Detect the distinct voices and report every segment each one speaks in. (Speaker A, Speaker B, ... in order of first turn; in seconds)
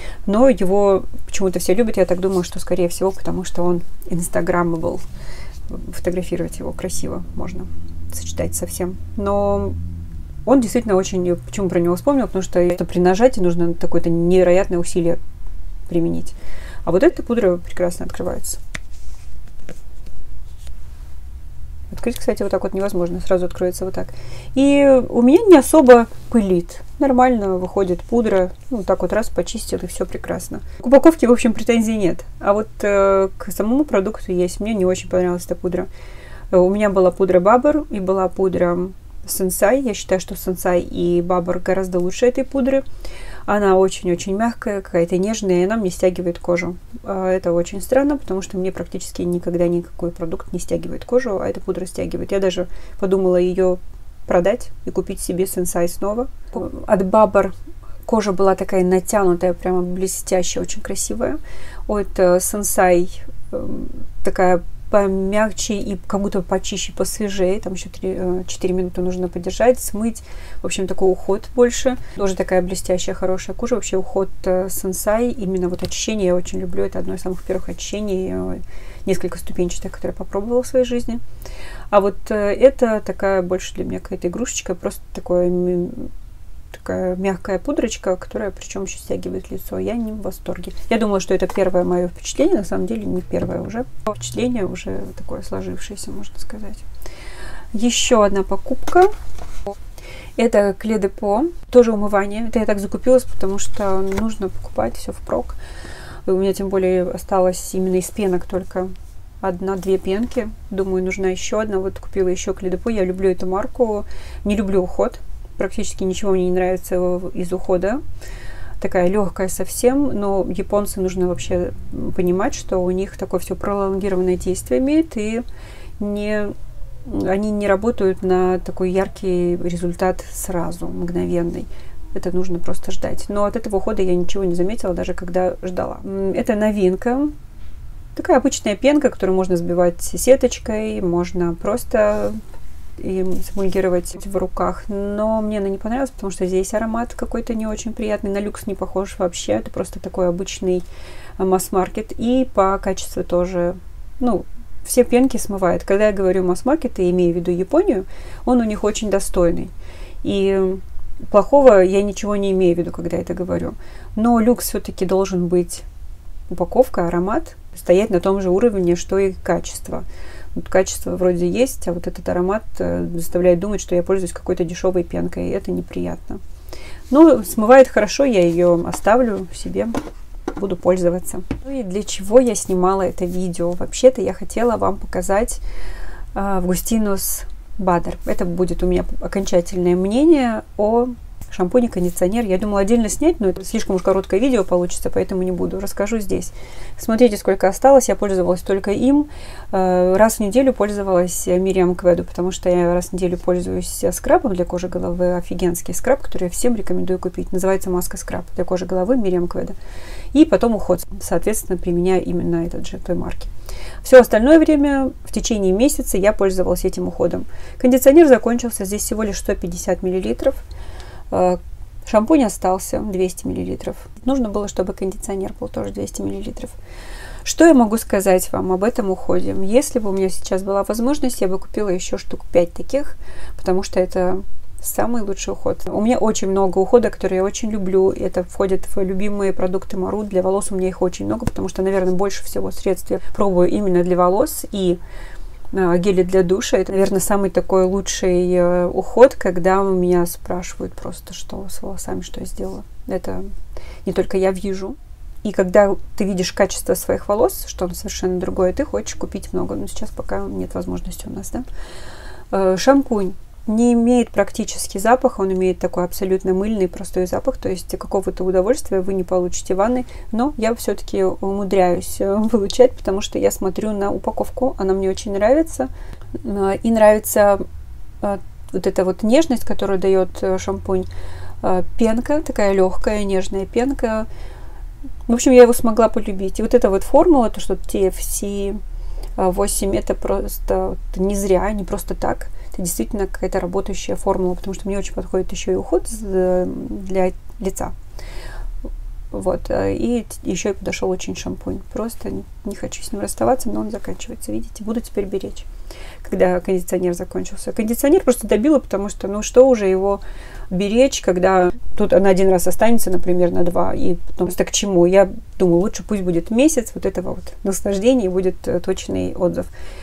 Speaker A: 0.3-5.0, 5.7-9.8, 10.4-15.2, 15.9-18.6, 21.9-35.9, 36.5-42.8, 43.5-57.5, 58.1-81.2, 81.9-86.1, 86.7-96.8, 97.7-99.1, 100.4-105.6, 106.3-118.0, 118.8-125.5, 126.0-126.5, 127.0-137.3, 138.2-142.4, 143.0-150.9, 151.4-159.7, 160.2-165.9, 166.5-176.4, 177.1-180.0, 180.6-185.6, 186.3-209.8, 210.3-213.5, 214.0-220.6, 221.3-226.8, 227.4-245.0, 245.7-253.4, 254.1-261.7, 262.5-277.6, 278.2-281.1, 281.6-284.3, 285.3-288.8, 289.4-297.9, 299.3-305.7, 306.2-319.7